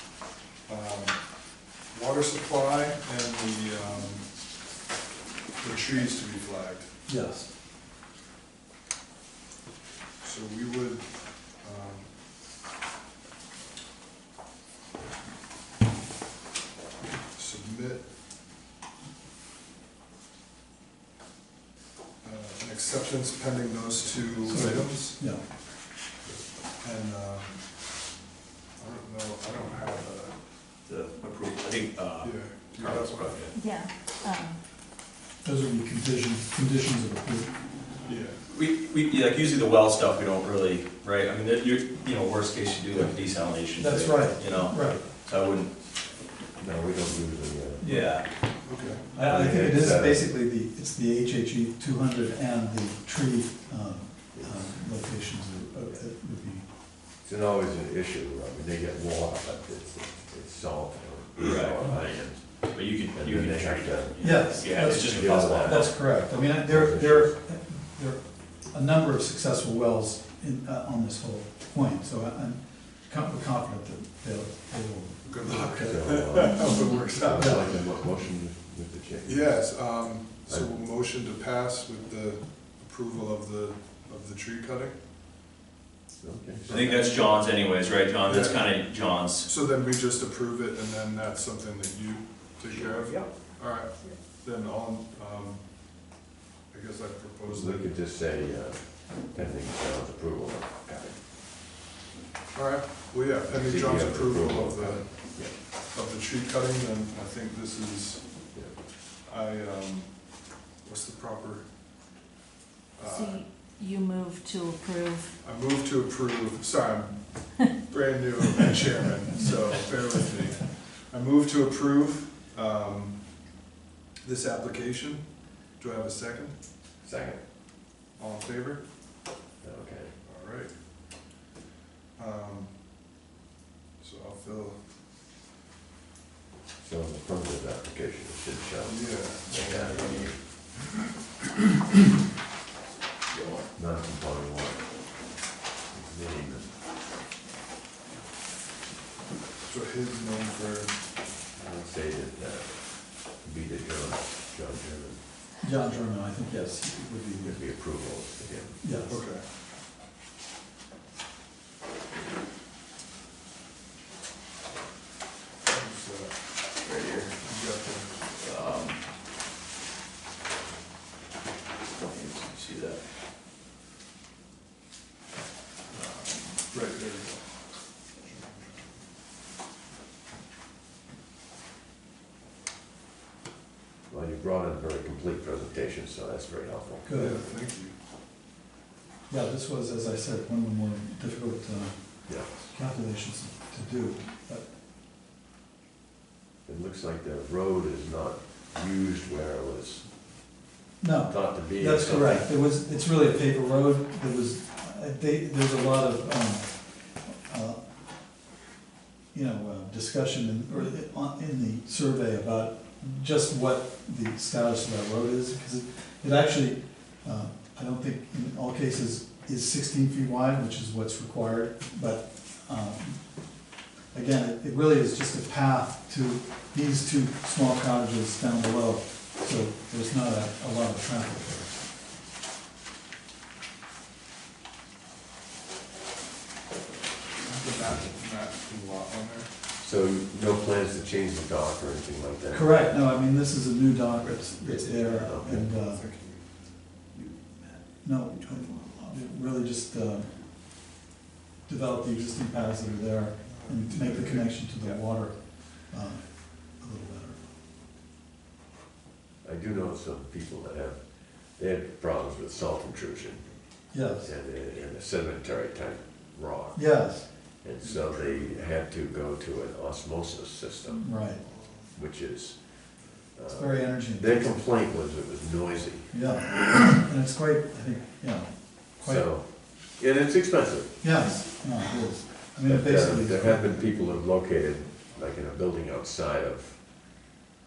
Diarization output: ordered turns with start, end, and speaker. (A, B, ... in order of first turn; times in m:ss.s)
0:00.6-0:04.3 A
0:05.6-0:07.0 A
0:07.0-0:07.5 B
0:10.2-0:12.1 A
0:17.3-0:18.1 A
0:22.2-0:25.5 A
0:24.4-0:25.5 B
0:26.2-0:27.9 A
0:28.8-0:30.5 A
0:30.8-0:33.6 C
0:32.2-0:33.5 A
0:33.5-0:34.6 D
0:35.4-0:37.7 B
0:38.0-0:38.4 A
0:38.5-0:45.8 C
0:43.8-0:45.0 B
0:46.6-0:48.2 E
0:47.8-0:48.3 B
0:47.8-0:48.3 C
0:48.6-0:49.1 A
0:49.1-0:56.6 B
0:49.2-0:50.3 E
0:54.3-0:54.8 E
0:57.2-1:07.4 E
1:01.4-1:06.0 C
1:04.2-1:16.3 B
1:15.2-1:17.8 A
1:15.7-1:19.9 E
1:16.6-1:17.1 D
1:17.4-1:17.7 B
1:19.2-1:25.0 A
1:20.5-1:20.7 E
1:26.2-1:26.7 E
1:26.6-1:29.5 C
1:26.7-1:27.0 A
1:28.2-1:36.1 A
1:32.7-1:34.1 C
1:36.7-1:37.9 A
1:37.4-1:41.2 E
1:42.5-1:48.5 A
1:43.4-1:45.6 E
1:49.2-1:51.7 A
1:53.0-1:53.4 A
1:53.0-1:55.3 D
1:55.4-2:03.6 A
1:59.3-2:00.0 B
2:04.2-2:06.6 A
2:07.0-2:07.4 E
2:08.1-2:08.9 A
2:09.6-2:10.1 E
2:10.2-2:11.2 A
2:12.2-2:12.8 A
2:14.0-2:14.8 A
2:16.8-2:20.4 E
2:18.8-2:20.3 A
2:19.5-2:20.3 C
2:23.3-2:23.7 C
2:23.7-2:26.8 E
2:29.6-2:31.1 A
2:31.5-2:35.2 E
2:35.6-2:37.6 B
2:37.4-2:39.1 E
2:38.8-2:39.2 B
2:39.1-2:39.4 A
2:45.6-2:46.6 A
2:46.6-2:47.4 C
2:47.4-2:48.2 A
2:48.3-2:49.1 C
2:51.9-2:53.0 C
2:55.9-2:56.6 C
2:56.7-2:59.0 A
3:04.1-3:07.0 E
3:07.0-3:07.4 B
3:07.1-3:07.9 A
3:09.3-3:14.7 B
3:16.6-3:20.1 E
3:21.0-3:27.8 B
3:21.3-3:22.5 E
3:29.3-3:51.8 B
3:57.4-3:59.5 A
3:59.8-4:02.9 E
4:02.5-4:06.0 B
4:04.2-4:05.5 C
4:04.7-4:05.2 A
4:05.1-4:05.7 E
4:05.7-4:06.5 A
4:06.9-4:09.2 C
4:08.0-4:10.8 B
4:11.6-4:17.4 B
4:13.4-4:15.0 A
4:19.4-4:31.1 E
4:23.9-4:24.3 B
4:26.7-4:27.3 B
4:27.8-4:28.6 A
4:31.0-4:31.4 B
4:31.9-4:36.1 E
4:33.5-4:34.7 B
4:36.1-4:39.3 B
4:39.0-4:41.5 E
4:41.0-4:43.8 B
4:42.6-4:46.8 E